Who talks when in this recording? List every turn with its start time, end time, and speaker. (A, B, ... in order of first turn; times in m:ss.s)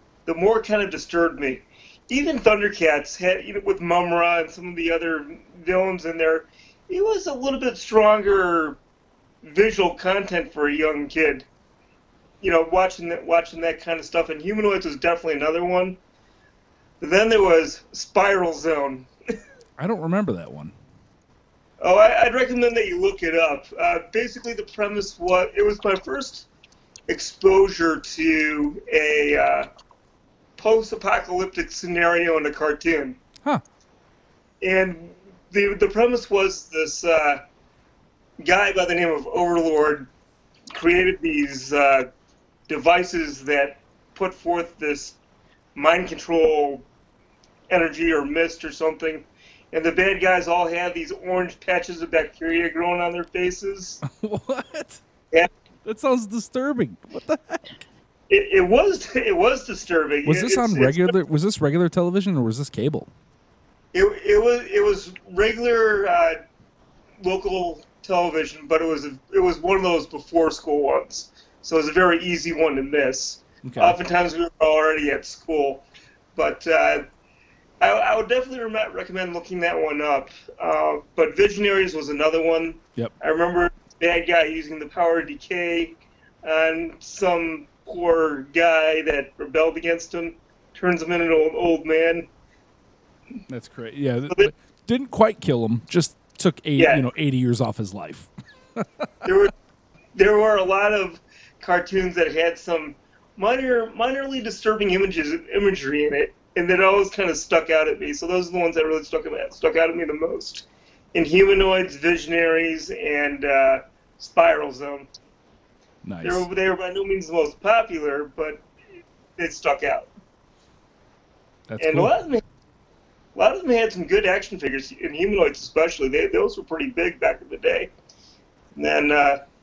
0:00.2-0:08.8 A
0:09.4-0:11.4 A
0:12.4-0:16.0 A
0:17.0-0:19.1 A
0:19.8-0:20.7 B
0:21.8-0:26.5 A
0:27.1-0:29.7 A
0:30.6-0:33.2 A
0:34.6-0:37.4 A
0:38.4-0:40.1 A
0:40.7-0:42.1 A
0:42.7-0:45.2 A
0:45.7-0:46.8 A
0:47.7-0:54.0 A
0:54.1-0:55.0 B
0:55.8-0:57.7 B
0:58.3-1:01.1 A
1:00.2-1:03.1 B
1:03.9-1:06.4 A
1:07.2-1:15.8 A
1:13.6-1:14.0 B
1:16.3-1:17.0 A
1:17.8-1:32.3 A
1:33.5-1:38.8 B
1:36.8-1:37.1 A
1:39.2-1:39.5 A
1:40.1-1:55.1 A
1:56.0-1:56.4 B
1:56.2-1:58.6 A
1:59.4-2:00.1 A
2:01.7-2:02.1 B
2:01.8-2:02.4 A
2:03.3-2:07.9 A
2:08.7-2:09.4 A